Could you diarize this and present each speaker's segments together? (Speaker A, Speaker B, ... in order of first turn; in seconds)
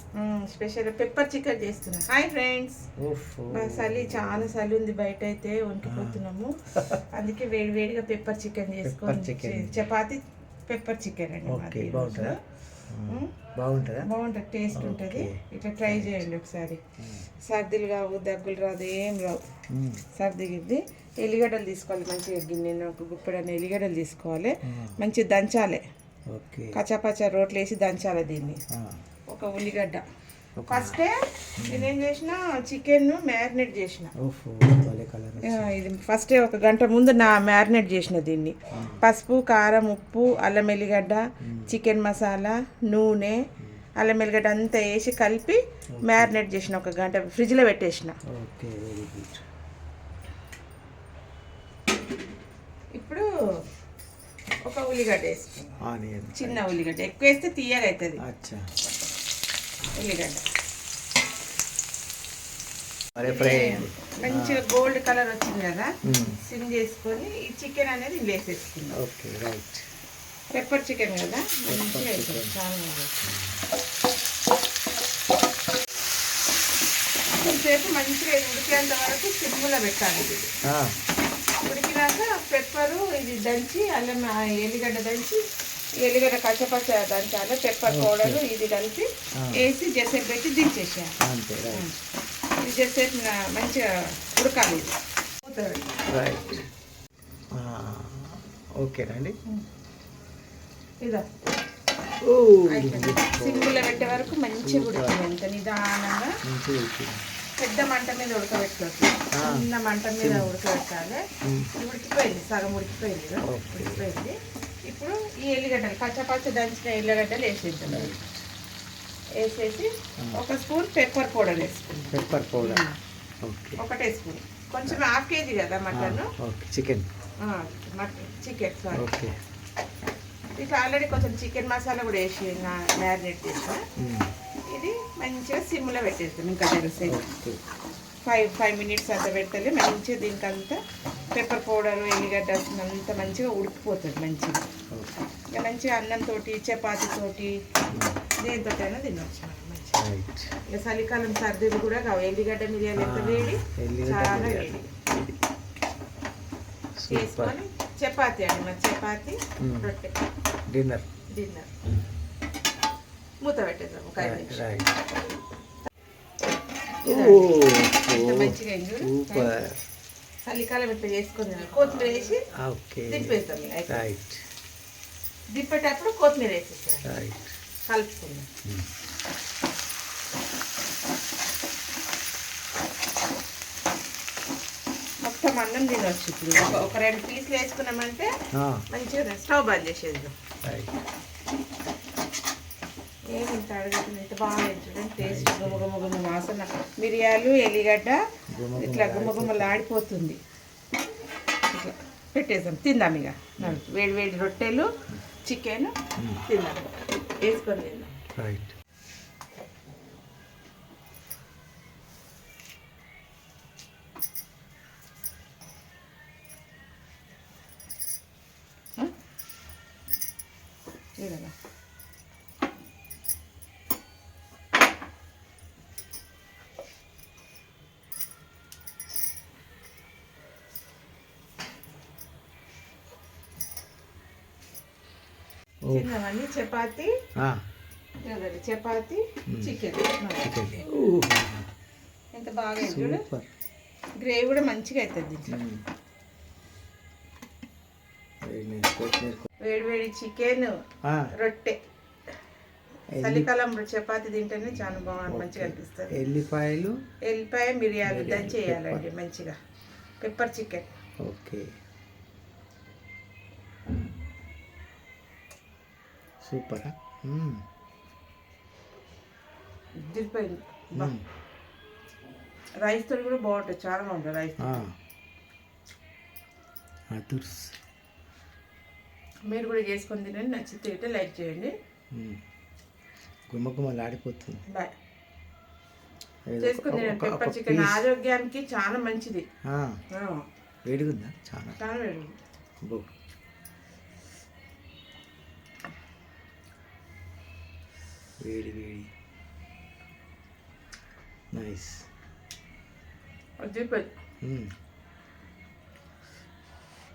Speaker A: 0.2-2.8, 3.5-12.4, 14.0-16.8, 17.4-19.4, 20.1-25.8, 26.7-28.6, 29.3-30.0, 30.7-34.1, 35.4-43.4, 44.0-48.1, 53.0-53.3, 54.6-55.8, 56.4-58.2, 60.0-60.4, 63.2-69.0, 70.5-73.1, 77.4-80.5, 81.6-85.4, 86.0-91.1, 92.6-95.8, 102.7-106.3, 107.6-111.2, 111.7-114.3, 114.9-118.1, 119.3-123.0, 123.8-126.3, 127.4-129.1, 130.6-133.8, 134.7-137.2, 138.2-140.8, 141.3-144.6, 145.5-147.6, 148.4-150.0, 150.7-154.9, 157.1-160.1, 161.3-161.7, 163.4-164.7, 167.0-169.5, 170.5-172.4, 173.1-174.1, 175.5-177.1, 177.9-178.5, 185.2-188.3, 188.9-190.3, 193.3-198.2, 198.8-200.4, 201.7-204.9, 205.4-205.9, 206.4-206.9, 207.4-208.2, 221.2-221.5, 235.9-237.1, 238.2-240.8, 242.3-243.2, 244.2-245.5, 249.6-250.7, 251.3-251.8, 253.2-256.1, 257.2-259.6, 260.2-260.9, 270.0-271.1, 272.8-274.8, 279.5-281.7, 286.6-289.4, 290.1-290.4, 291.8-292.3, 303.6-304.1
Speaker B: 3.0-4.5, 5.8-6.2, 6.7-7.0, 8.8-9.8, 11.5-12.4, 12.9-14.1, 14.7-16.2, 17.0-17.3, 19.7-20.0, 24.6-25.0, 26.3-26.8, 28.7-29.0, 30.6-31.0, 31.6-31.9, 34.2-35.7, 38.7-39.0, 41.4-41.7, 45.9-46.3, 48.3-49.4, 55.8-56.8, 58.2-58.7, 63.2-64.6, 66.0-66.4, 68.9-69.8, 71.7-72.5, 73.2-73.6, 80.7-80.9, 87.9-88.4, 89.4-89.7, 91.2-91.9, 96.1-96.7, 97.5-99.3, 102.2-105.2, 106.4-107.2, 109.3-109.7, 110.2-110.5, 111.4-111.7, 113.4-114.0, 117.9-118.5, 122.1-122.9, 123.4-123.8, 125.9-127.1, 128.9-129.3, 134.0-134.3, 137.1-137.6, 147.9-148.2, 149.9-150.5, 153.0-155.3, 157.0-157.6, 159.6-159.9, 160.7-161.1, 164.2-164.9, 167.1-169.8, 172.5-173.3, 173.9-174.4, 177.1-177.5, 186.6-186.9, 188.6-188.8, 190.7-190.9, 195.2-195.8, 198.5-199.8, 206.2-206.4, 208.3-208.7, 239.5-239.8, 240.4-241.7, 242.8-243.5, 245.5-245.8, 248.4-249.5, 253.2-253.5, 255.3-257.0, 258.0-259.0, 261.2-261.7, 266.4-267.6, 270.9-271.2, 274.6-274.9, 277.1-277.8, 282.1-282.4, 283.5-284.6, 286.5-288.1, 289.6-290.0, 290.9-291.8, 292.8-293.1, 298.4-299.1, 301.5-302.1, 304.4-304.7